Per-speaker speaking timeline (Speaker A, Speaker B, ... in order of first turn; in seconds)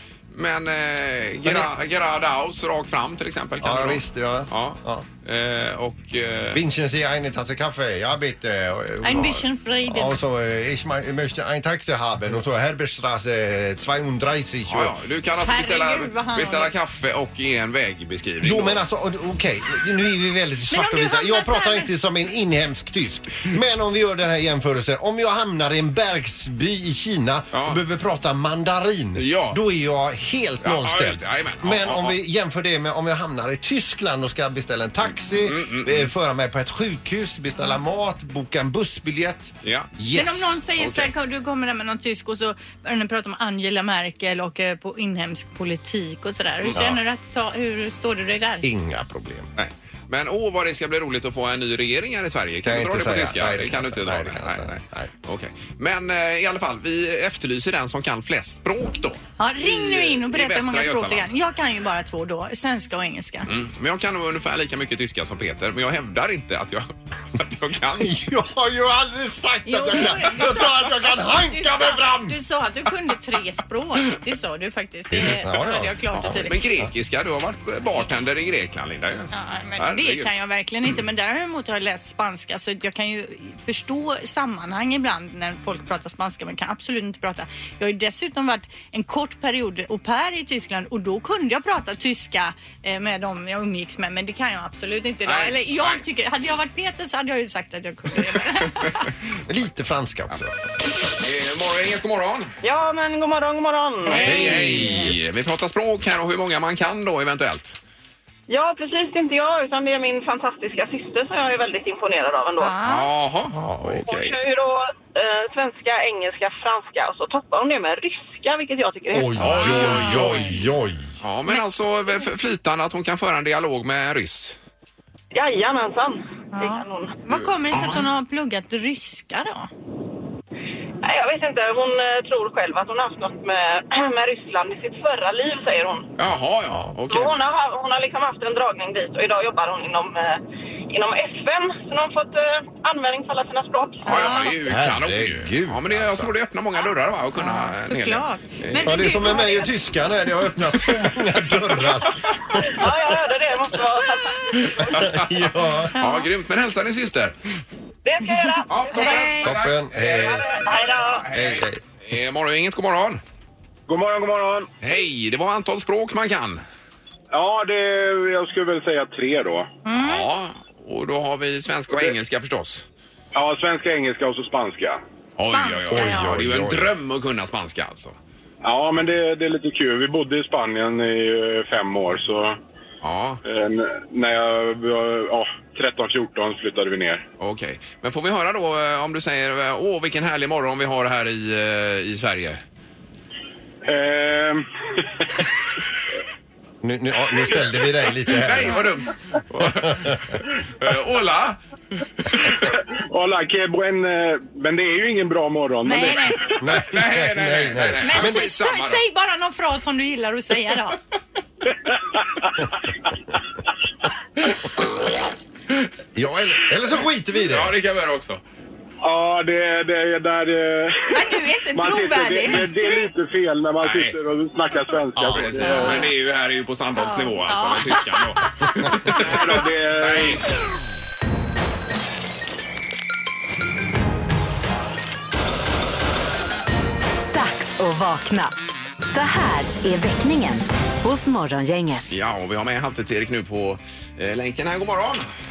Speaker A: 0.3-6.6, 14.7-18.8, 27.5-27.8, 29.1-29.6, 30.6-32.2, 35.4-36.1, 39.6-39.9, 40.8-41.1, 46.6-46.9, 49.6-61.3, 63.5-68.1, 76.1-80.3, 95.2-96.0, 101.2-102.5, 104.0-107.8, 112.8-114.4, 119.4-120.6, 121.2-124.6, 136.2-137.3, 144.0-149.4, 154.8-157.3, 158.7-160.5, 161.1-163.2, 164.8-166.6, 169.9-172.8, 175.4-178.2, 183.0-183.4, 187.4-192.6, 198.3-201.6, 206.8-209.0, 217.4-218.4, 223.8-224.2, 225.3-230.4, 242.1-245.3
Speaker B: 1.4-1.7, 3.6-5.0, 6.5-14.9, 18.4-40.6, 46.7-47.0, 48.6-49.5, 52.6-55.1, 68.0-72.4, 75.1-76.9, 99.5-100.5, 104.2-105.1, 113.5-114.0, 119.1-121.1, 144.6-146.3, 148.8-152.9, 154.8-155.9, 159.2-160.5, 161.3-161.8, 175.9-176.9, 196.8-198.9, 199.8-200.3, 206.6-208.4, 216.1-217.7, 225.2-225.6
Speaker C: 9.0-10.2, 15.4-16.7, 20.7-21.9, 40.1-48.7, 59.4-63.5, 69.7-76.6, 79.3-99.1, 104.2-105.1, 112.6-113.1, 119.6-120.5, 126.5-129.7, 144.0-144.6, 147.3-149.7, 155.9-156.3, 158.9-159.5, 169.8-170.3, 175.4-176.3, 205.8-206.5, 208.0-211.0, 221.1-223.1, 225.6-226.1, 226.9-228.4
Speaker D: 102.6-104.3, 108.5-112.8, 114.0-119.9, 125.3-127.2, 131.0-136.1, 137.1-144.3, 152.7-155.1, 158.0-159.1, 160.2-161.2
Speaker E: 163.9-164.7, 167.3-169.7, 173.3-175.0, 178.6-182.6, 183.4-187.2, 193.8-195.0, 203.1-206.4, 211.9-212.5, 219.0-226.1, 229.2-230.4
Speaker F: 237.3-238.5, 239.1-242.1